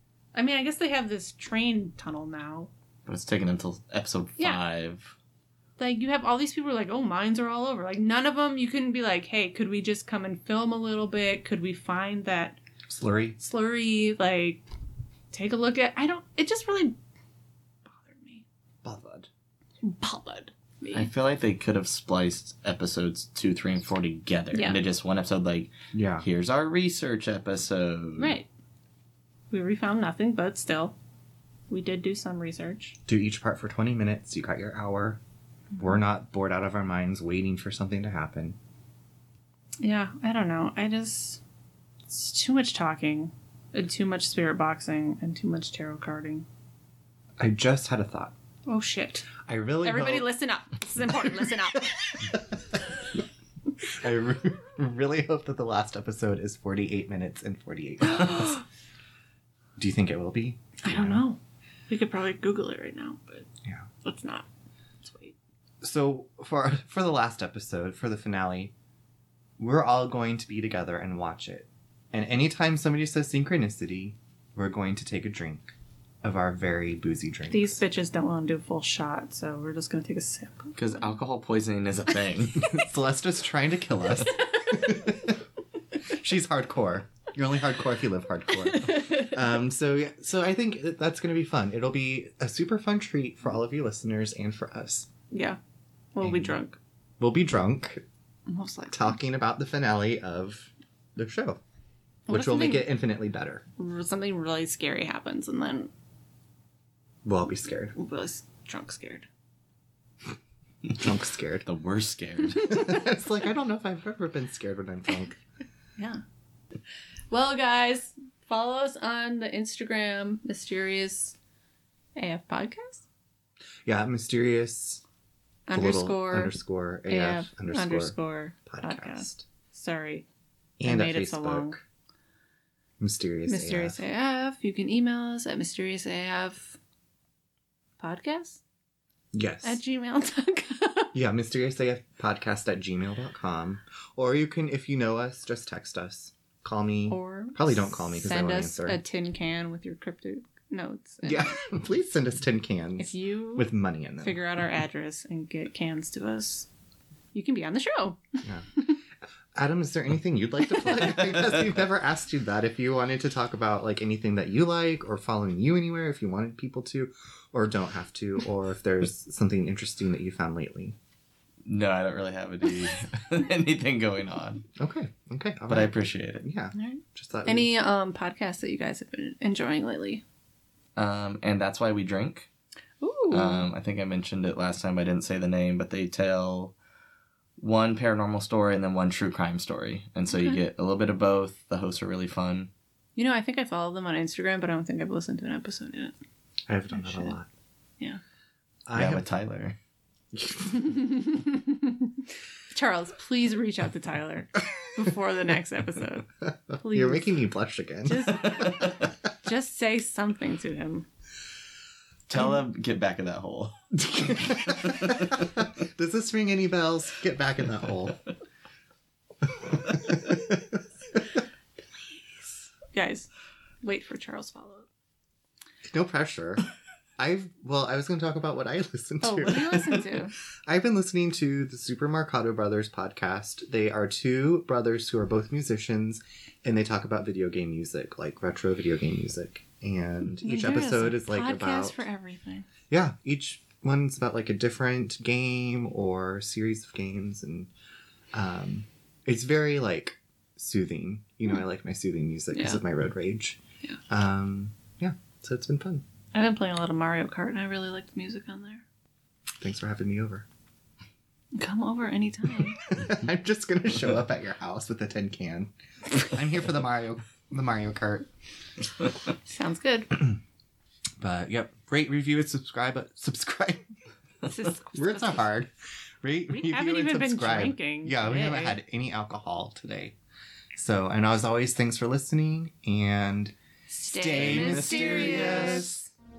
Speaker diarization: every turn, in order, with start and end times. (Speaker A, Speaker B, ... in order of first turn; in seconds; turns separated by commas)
Speaker A: 0.3-2.7, Speaker B: 3.0-5.1, Speaker A: 4.4-4.6, Speaker A: 5.8-12.6, Speaker C: 12.9-13.4, Speaker A: 13.4-14.6, Speaker A: 15.3-16.9, Speaker A: 17.9-18.4, Speaker C: 18.8-19.3, Speaker A: 19.8-21.1, Speaker B: 20.9-28.4, Speaker A: 24.5-24.8, Speaker C: 25.9-26.2, Speaker A: 28.2-28.5, Speaker A: 29.5-30.9, Speaker A: 31.7-33.0, Speaker C: 33.1-35.2, Speaker C: 35.8-38.6, Speaker A: 39.8-41.4, Speaker A: 42.1-46.5, Speaker C: 47.4-48.3, Speaker A: 48.7-52.1, Speaker C: 49.4-50.3, Speaker C: 51.1-53.2, Speaker C: 53.8-58.6, Speaker C: 59.8-61.2, Speaker A: 60.8-63.5, Speaker A: 64.0-64.5, Speaker A: 65.0-65.4, Speaker C: 65.8-68.7, Speaker C: 69.6-77.8, Speaker A: 77.5-80.8, Speaker B: 80.8-82.7, Speaker C: 82.6-85.4, Speaker C: 86.1-95.1, Speaker A: 88.7-89.3, Speaker A: 95.3-95.6, Speaker A: 96.1-96.8, Speaker C: 96.2-96.6, Speaker C: 97.2-98.0, Speaker A: 98.5-99.2, Speaker C: 98.9-101.6, Speaker A: 102.3-103.0, Speaker C: 102.3-103.6, Speaker A: 103.8-105.9, Speaker C: 107.2-107.9, Speaker A: 108.0-109.3, Speaker C: 111.0-111.7, Speaker B: 111.7-112.8, Speaker C: 112.6-115.4, Speaker A: 117.3-121.3, Speaker A: 122.2-123.0, Speaker C: 123.8-125.0, Speaker A: 125.7-130.3, Speaker C: 125.7-129.4, Speaker C: 130.8-131.8, Speaker A: 130.8-131.7, Speaker C: 133.0-134.0, Speaker A: 133.5-136.8, Speaker A: 138.0-138.6, Speaker C: 139.3-139.8, Speaker A: 139.6-141.1, Speaker C: 141.1-149.0, Speaker A: 147.1-151.6, Speaker C: 151.2-154.4, Speaker A: 153.0-156.7, Speaker A: 157.3-159.0, Speaker C: 159.5-170.9, Speaker B: 171.6-174.6, Speaker C: 174.8-177.7, Speaker B: 175.7-176.4, Speaker A: 176.7-180.2, Speaker B: 180.9-182.5, Speaker A: 183.0-183.7, Speaker B: 183.3-186.7, Speaker B: 187.6-192.7, Speaker A: 190.3-190.6, Speaker A: 193.2-196.2, Speaker C: 196.7-197.5, Speaker A: 196.9-197.3, Speaker C: 198.9-199.2, Speaker B: 198.9-199.8, Speaker C: 200.3-201.0, Speaker A: 200.7-202.1, Speaker A: 202.7-207.3, Speaker C: 206.4-208.8, Speaker A: 208.0-211.1, Speaker B: 208.4-209.0, Speaker B: 212.3-213.7, Speaker C: 213.9-218.2, Speaker B: 214.7-215.2, Speaker C: 219.6-221.2, Speaker A: 222.9-223.3, Speaker A: 223.8-224.9, Speaker C: 225.8-226.6, Speaker C: 227.2-242.0, Speaker A: 229.2-230.3, Speaker A: 240.4-242.7, Speaker C: 242.9-247.7, Speaker C: 248.3-256.0, Speaker A: 252.5-252.8, Speaker A: 256.3-258.8, Speaker C: 259.6-260.4, Speaker A: 261.6-262.8, Speaker C: 262.8-268.3, Speaker A: 269.4-270.3, Speaker C: 271.2-273.8, Speaker A: 274.4-275.4, Speaker C: 274.9-275.7, Speaker C: 276.2-280.1, Speaker A: 276.5-278.8, Speaker C: 280.7-286.0, Speaker A: 283.9-285.9, Speaker B: 284.4-286.0